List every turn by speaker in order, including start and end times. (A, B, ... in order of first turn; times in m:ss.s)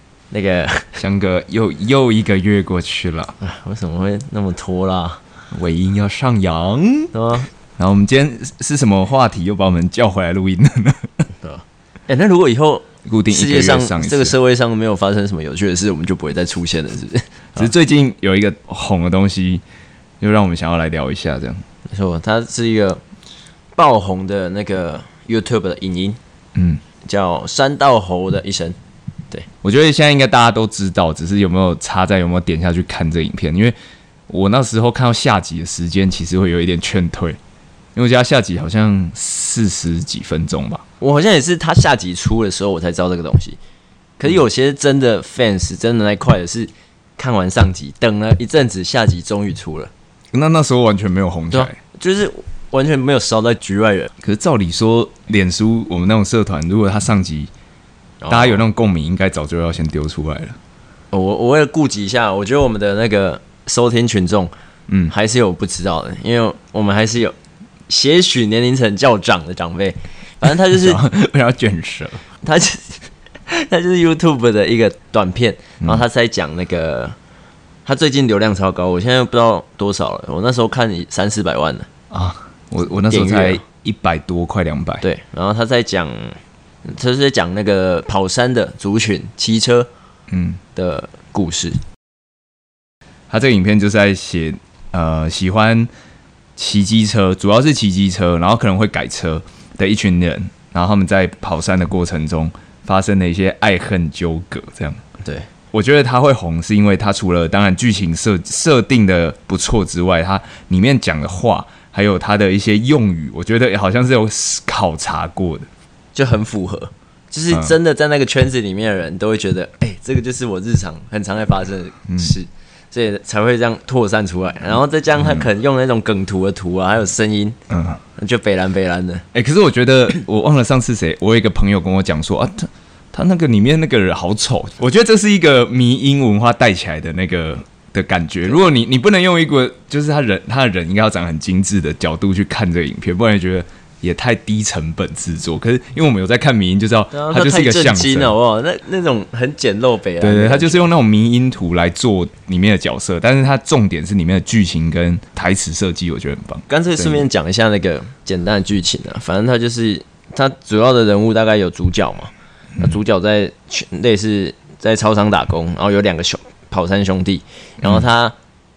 0:00.3-0:00.9 A
0:01.0-0:03.3 B
0:03.4-0:05.2 A
0:05.5-0:07.1 B
0:07.1-0:07.5 A
0:07.8-0:11.3 B
0:11.4-0:17.7 A
0:13.0-0:14.4 B
0:17.6-0:19.6 B
0:20.2-0:21.6 B
0:21.9-0:23.0 A
0:23.8-0:26.2 A
0:26.6-0:26.8 B
0:27.0-0:28.8 A
0:29.6-0:33.8 B
0:34.3-0:37.4 B
0:38.0-0:40.8 B
0:41.0-0:43.6 A
0:44.2-0:49.9 A
0:50.3-0:51.8 B
0:51.5-0:54.1 A
0:54.2-0:57.5 B
0:58.2-0:58.6 A
0:58.3-1:00.6 B
1:01.1-1:04.5 A
1:05.1-1:07.4 A
1:07.9-1:11.0 A
1:10.7-1:12.2 B
1:12.4-1:17.2 A
1:17.9-1:21.9 A
1:22.1-1:25.0 B
1:23.1-1:23.6 A
1:25.0-1:29.9 A
1:30.3-1:30.6 B
1:30.8-1:31.8 A
1:33.3-1:35.9 B
1:36.6-1:45.0 B
1:45.7-1:55.7 B
1:56.2-2:07.6 A
2:02.1-2:02.3 B
2:05.2-2:05.5 B
2:07.7-2:08.0 B
2:08.2-2:09.2 A
2:09.3-2:28.4 B
2:27.1-2:30.8 A
2:30.2-2:37.3 B
2:36.7-2:48.4 A